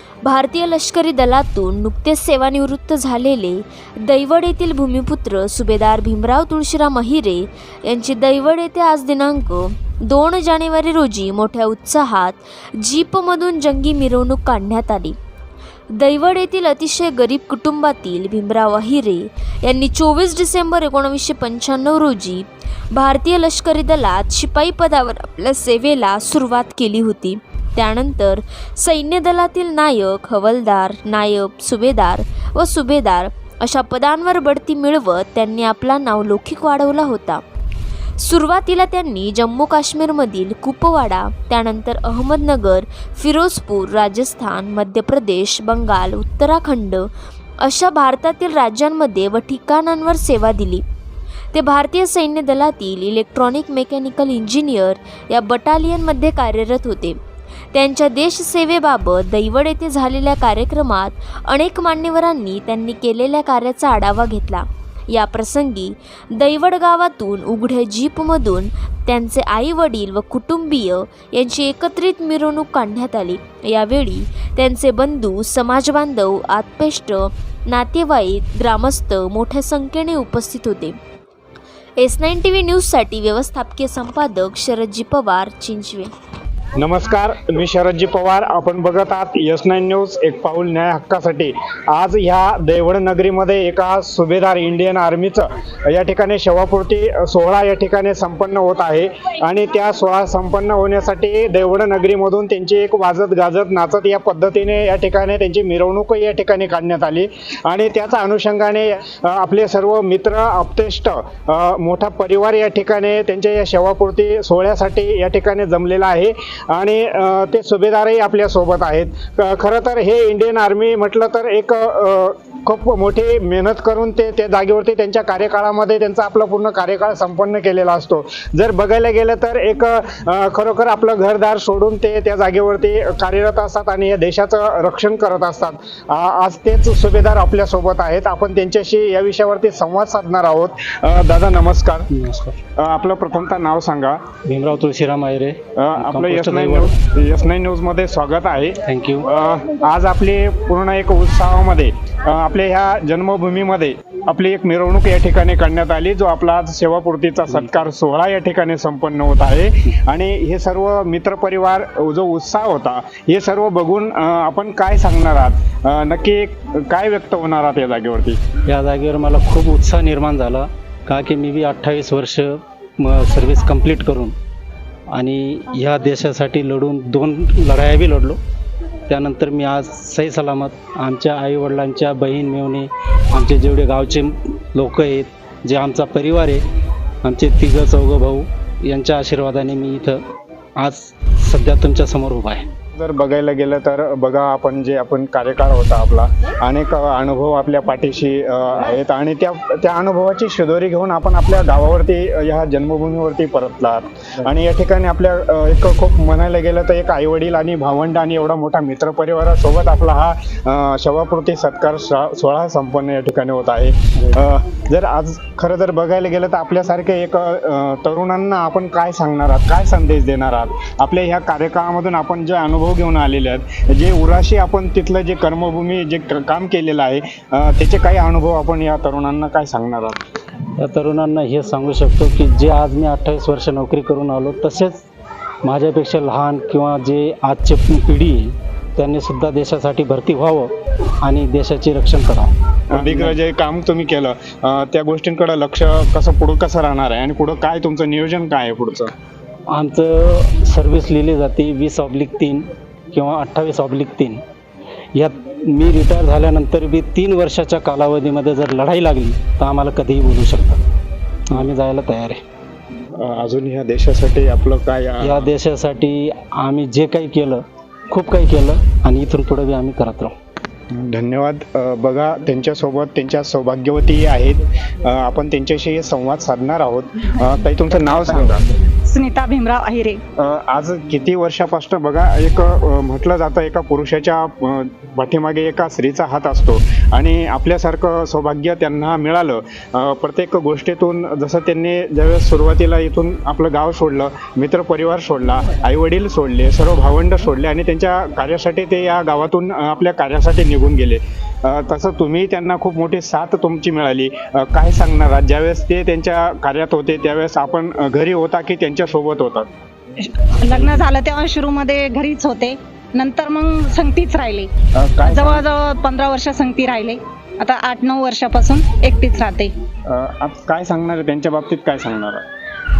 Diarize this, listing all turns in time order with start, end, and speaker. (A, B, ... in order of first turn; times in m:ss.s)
0:00.2-0:15.2 A
0:15.9-0:37.4 A
0:38.2-0:47.1 A
0:47.6-0:50.8 A
0:51.5-0:57.2 A
0:57.7-1:21.0 A
1:22.0-1:26.1 A
1:26.8-2:22.1 B
2:22.1-2:22.6 C
2:22.8-2:24.2 B
2:24.5-2:26.9 C
2:25.8-2:48.4 B
2:28.9-2:29.3 C
2:37.5-2:37.7 C
2:48.7-2:54.3 C
2:55.1-2:58.4 C
2:59.1-3:06.6 C
3:07.2-3:10.2 C
3:10.8-3:12.6 C
3:12.9-3:50.2 B
3:50.8-3:55.0 C
3:55.6-4:00.7 C
4:01.2-4:03.4 C
4:02.9-4:09.1 B
4:09.7-4:14.4 C
4:15.1-4:20.8 C
4:21.5-4:22.4 C
4:23.2-4:25.5 B
4:25.2-4:30.3 C
4:30.9-4:38.6 B
4:39.0-4:40.2 D
4:40.4-5:09.7 B
5:10.2-5:14.7 D
5:14.9-5:15.6 B
5:15.2-5:19.7 D
5:20.1-5:22.4 B